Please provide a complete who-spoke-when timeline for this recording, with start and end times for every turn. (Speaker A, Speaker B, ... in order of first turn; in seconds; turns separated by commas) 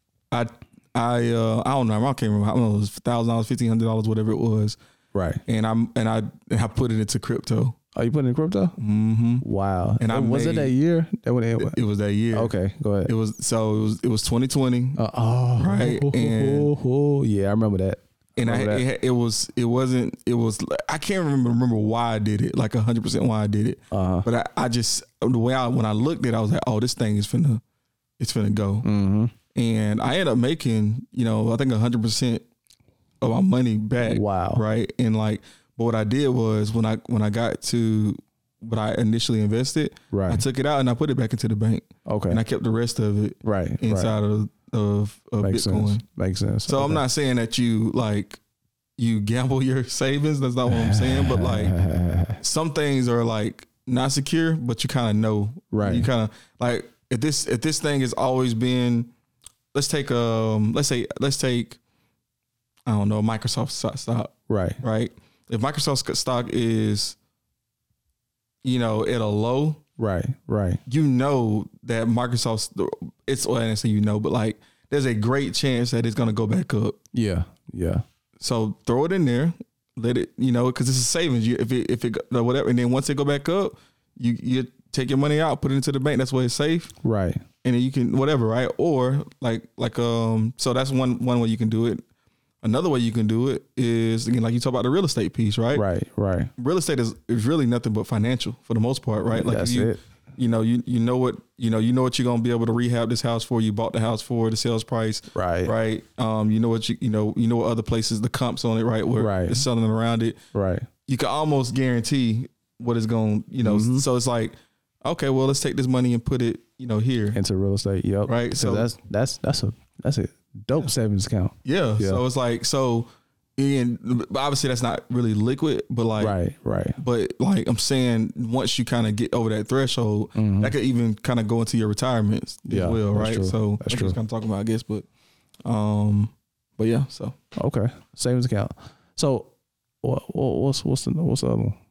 Speaker A: 0.3-4.8, Speaker B: 5.1-5.4, Speaker A: 5.5-7.8, Speaker B: 8.0-8.8, Speaker A: 8.8-9.4, Speaker B: 9.4-11.8, Speaker A: 10.0-10.7, Speaker A: 11.6-12.5, Speaker B: 12.3-13.1, Speaker A: 13.1-15.0, Speaker B: 15.0-18.8, Speaker A: 15.6-16.7, Speaker A: 18.4-27.6, Speaker B: 23.9-24.3, Speaker A: 28.2-28.9, Speaker B: 28.8-29.3, Speaker A: 29.6-32.4, Speaker A: 33.2-46.0, Speaker B: 34.0-34.6, Speaker B: 40.1-40.4, Speaker B: 42.1-42.4, Speaker B: 43.4-44.1, Speaker B: 45.4-47.0, Speaker A: 46.7-48.4, Speaker A: 49.0-51.8, Speaker B: 50.7-52.4, Speaker A: 52.4-59.1, Speaker B: 55.7-56.1, Speaker A: 59.7-61.8, Speaker A: 62.9-67.2, Speaker B: 64.5-64.8, Speaker A: 68.6-69.8, Speaker B: 70.0-70.8, Speaker A: 70.9-77.0, Speaker B: 77.1-78.0, Speaker A: 78.4-86.9, Speaker B: 87.0-87.4, Speaker A: 87.6-92.0, Speaker A: 92.6-95.8, Speaker B: 95.7-96.5, Speaker A: 96.6-110.4, Speaker B: 99.3-100.0, Speaker B: 105.3-105.7, Speaker B: 109.2-109.7, Speaker B: 110.5-110.9, Speaker A: 111.1-117.4, Speaker B: 113.6-114.0, Speaker B: 117.3-122.2, Speaker A: 118.3-118.9, Speaker A: 121.7-126.4, Speaker B: 126.2-127.0, Speaker A: 127.0-135.1, Speaker B: 130.4-130.7, Speaker B: 132.7-134.2, Speaker A: 135.7-137.4, Speaker B: 137.6-139.5, Speaker B: 140.0-141.8